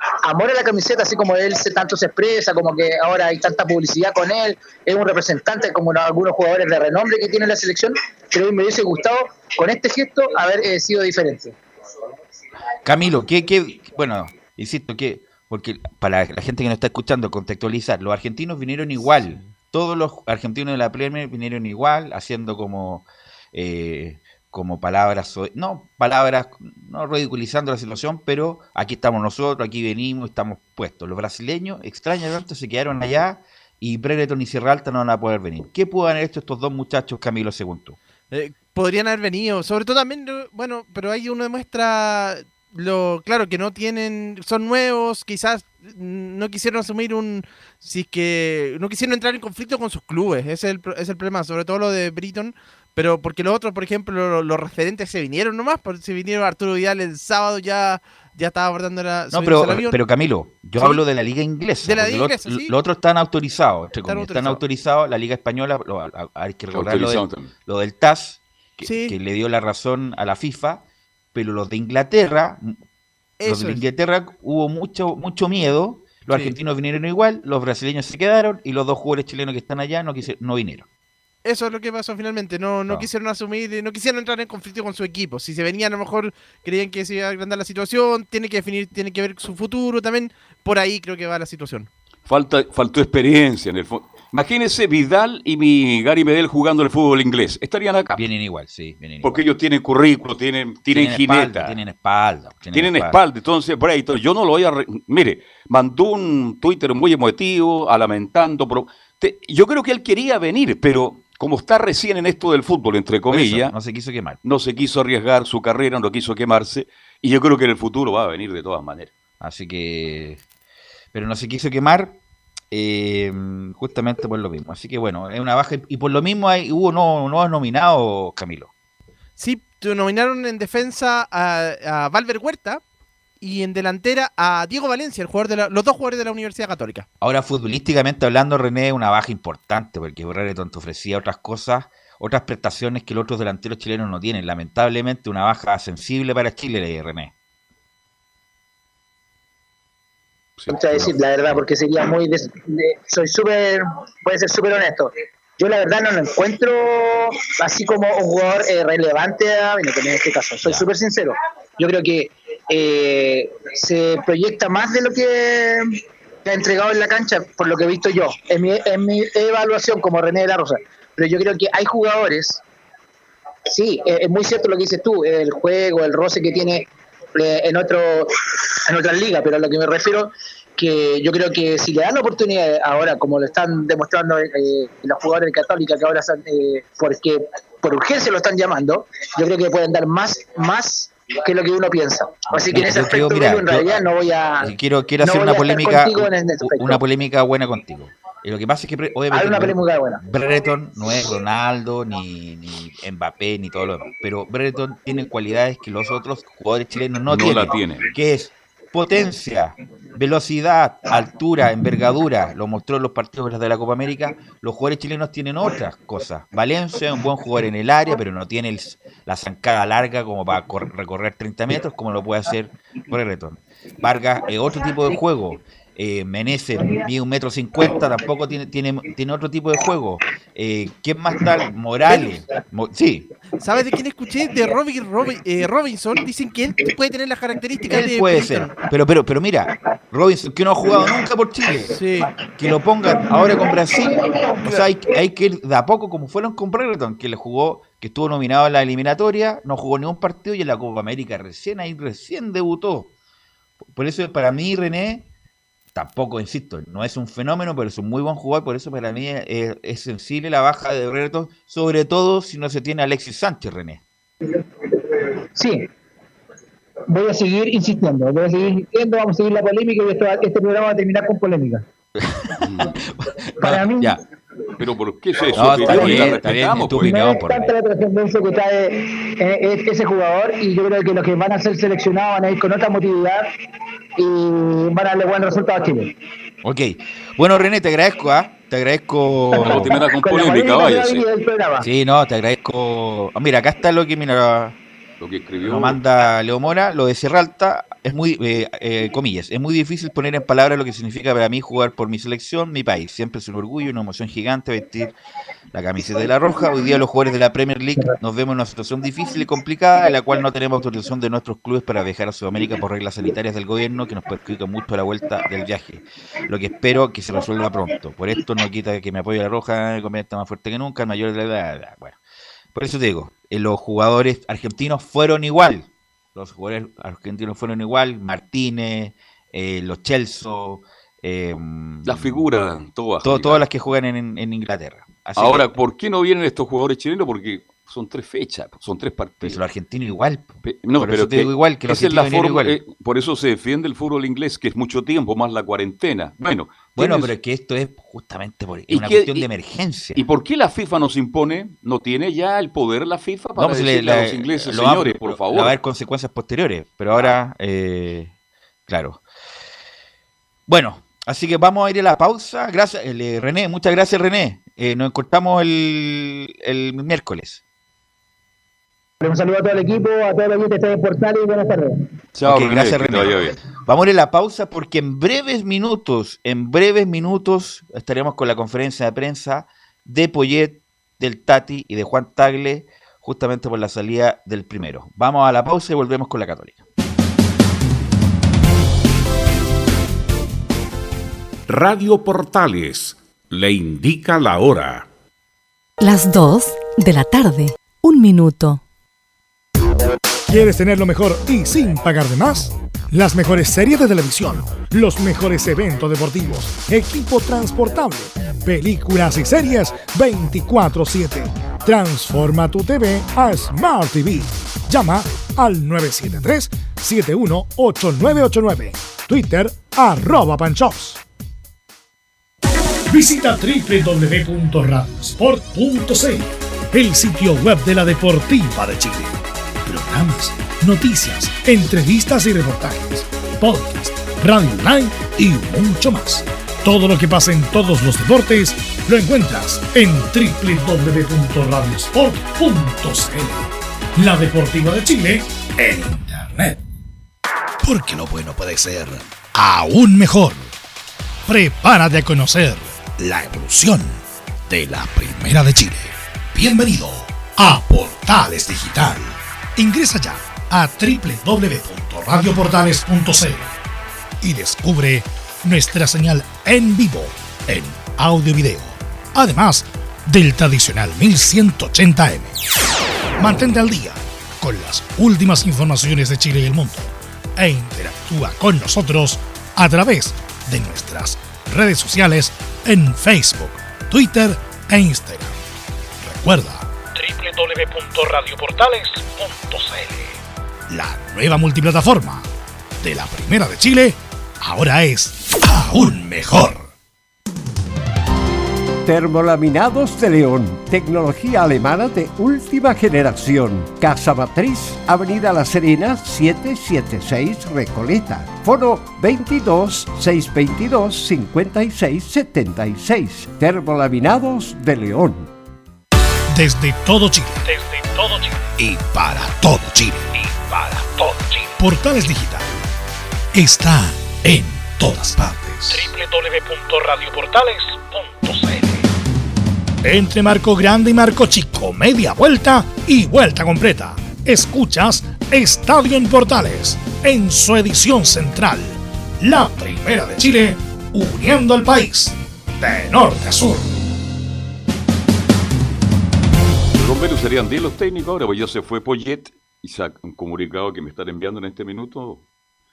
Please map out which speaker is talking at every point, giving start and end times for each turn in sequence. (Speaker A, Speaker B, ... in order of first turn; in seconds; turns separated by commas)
Speaker A: 0.2-11.6, Speaker B: 12.8-38.0, Speaker C: 38.3-60.0, Speaker B: 59.3-72.8, Speaker C: 61.8-62.7, Speaker C: 64.1-64.6, Speaker D: 66.7-67.5, Speaker C: 68.8-69.2, Speaker C: 73.4-73.8, Speaker B: 73.4-80.8, Speaker C: 76.3-76.5, Speaker C: 81.4-91.9, Speaker D: 92.3-98.2, Speaker B: 98.1-99.4, Speaker D: 99.2-101.8, Speaker B: 100.9-103.2, Speaker D: 102.7-113.7, Speaker B: 113.3-114.4, Speaker D: 114.4-119.1, Speaker B: 119.4-120.4, Speaker B: 121.1-122.2, Speaker B: 122.7-128.7, Speaker C: 129.4-132.8, Speaker C: 133.4-137.1, Speaker B: 137.2-147.3, Speaker D: 150.6-151.1, Speaker A: 150.7-165.9, Speaker A: 166.4-172.6, Speaker A: 173.7-178.3, Speaker A: 178.8-194.7, Speaker B: 192.5-194.1, Speaker B: 194.6-233.3, Speaker A: 195.2-197.0, Speaker A: 199.3-200.2, Speaker D: 207.3-208.1, Speaker C: 233.6-238.7, Speaker B: 237.9-241.9, Speaker C: 241.9-242.3, Speaker B: 242.6-253.1, Speaker B: 253.9-255.2, Speaker B: 255.9-264.0, Speaker A: 265.5-265.9, Speaker A: 267.1-271.8, Speaker B: 272.1-272.5, Speaker D: 272.6-272.9, Speaker B: 273.1-274.2, Speaker A: 273.6-274.1, Speaker D: 274.8-277.1, Speaker B: 275.5-277.7, Speaker A: 275.9-276.1, Speaker A: 277.0-283.5, Speaker A: 284.2-286.1, Speaker B: 286.6-290.0, Speaker D: 289.6-291.2, Speaker A: 290.2-291.9, Speaker B: 291.8-294.8, Speaker D: 295.2-296.0, Speaker B: 295.6-305.1, Speaker B: 305.7-322.2, Speaker B: 322.7-332.5, Speaker D: 332.0-333.6, Speaker B: 333.2-335.7, Speaker D: 335.4-339.6, Speaker B: 339.4-342.8, Speaker D: 340.6-347.3, Speaker B: 346.9-350.2, Speaker D: 348.9-349.5, Speaker D: 350.1-355.8, Speaker B: 353.6-358.3, Speaker B: 358.9-359.2, Speaker B: 360.7-367.6, Speaker A: 369.2-372.1, Speaker D: 372.3-373.6, Speaker B: 372.4-386.8, Speaker E: 391.7-395.1, Speaker F: 396.0-398.8, Speaker G: 400.5-421.2, Speaker G: 423.1-446.8, Speaker G: 447.8-450.7, Speaker G: 451.5-463.7, Speaker G: 464.4-472.5, Speaker G: 473.4-485.6, Speaker G: 486.2-490.4, Speaker G: 490.9-492.5, Speaker G: 493.0-496.9, Speaker H: 499.0-515.5, Speaker G: 516.5-522.7, Speaker G: 523.5-529.1, Speaker G: 530.0-544.0, Speaker D: 546.9-552.4